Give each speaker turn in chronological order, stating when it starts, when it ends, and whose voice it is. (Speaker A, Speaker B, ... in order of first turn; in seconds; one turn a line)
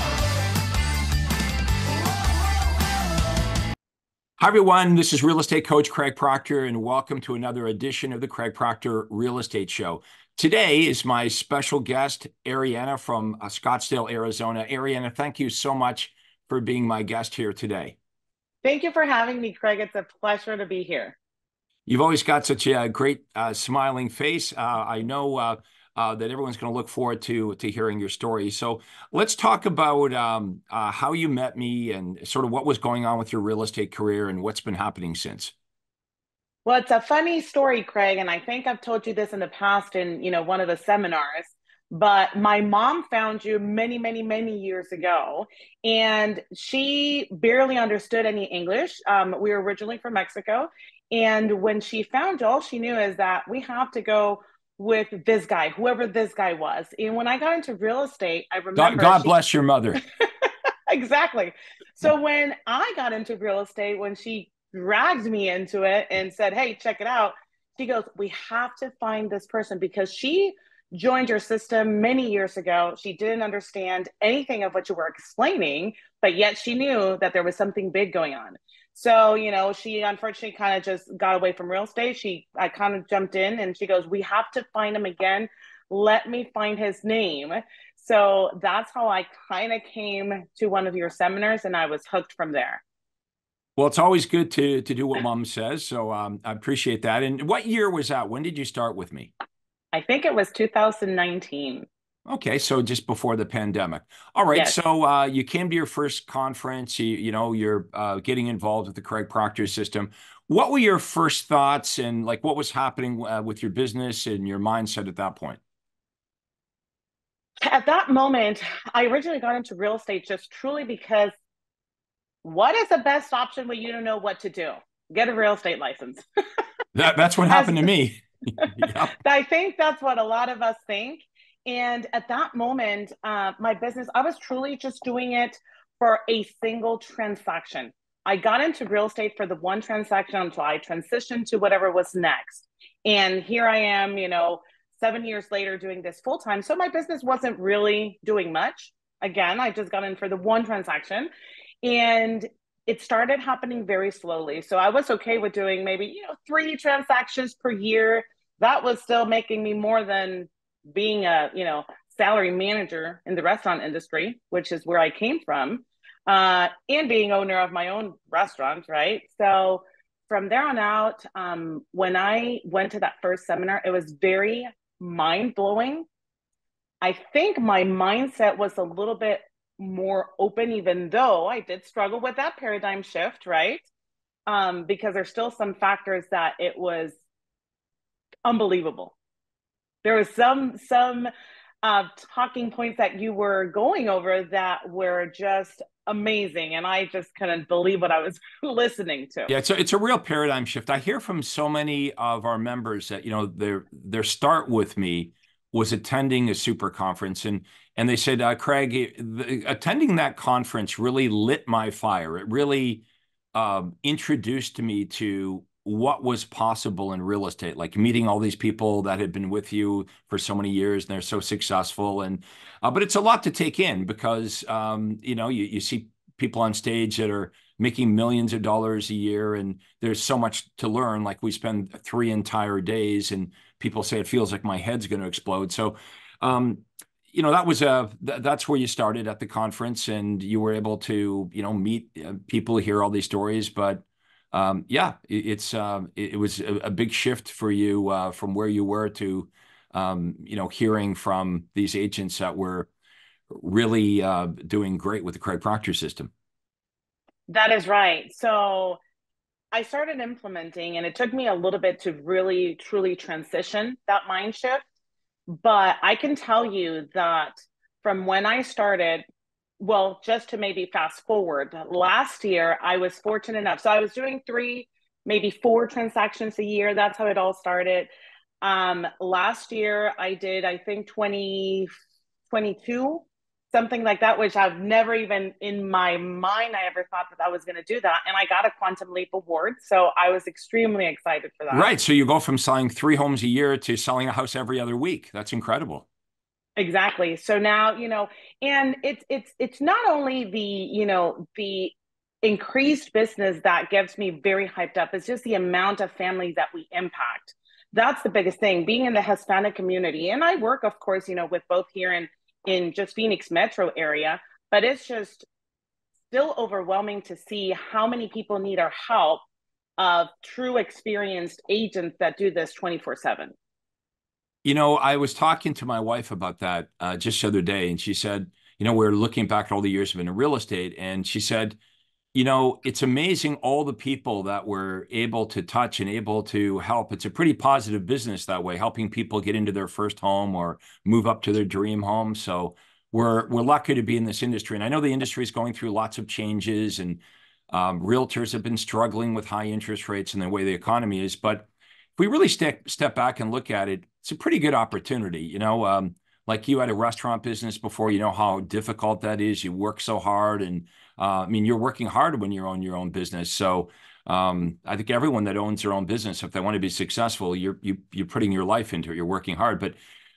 Speaker A: 4.4-18.0
Speaker B: 18.6-21.2
Speaker A: 21.9-35.5
Speaker B: 36.6-59.3
Speaker A: 58.8-60.0
Speaker B: 60.2-92.8
Speaker A: 93.8-99.3
Speaker B: 99.9-101.8
Speaker A: 102.2-115.6
Speaker B: 117.6-121.3
Speaker B: 122.4-126.2
Speaker A: 126.9-129.1
Speaker B: 127.5-127.9
Speaker B: 128.6-151.3
Speaker B: 151.8-176.1
Speaker B: 177.0-183.8
Speaker B: 184.5-187.2
Speaker B: 188.4-189.2
Speaker B: 190.0-191.3
Speaker B: 191.8-199.5
Speaker A: 199.5-252.9
Speaker A: 253.5-256.3
Speaker B: 257.5-259.0
Speaker B: 259.7-264.8
Speaker B: 265.5-269.2
Speaker B: 269.8-278.1
Speaker B: 278.6-281.9
Speaker B: 282.5-291.9
Speaker A: 291.7-296.1
Speaker B: 296.8-315.5
Speaker B: 316.3-319.4
Speaker B: 320.0-323.5
Speaker A: 324.6-331.8
Speaker A: 332.3-347.2
Speaker A: 347.7-370.0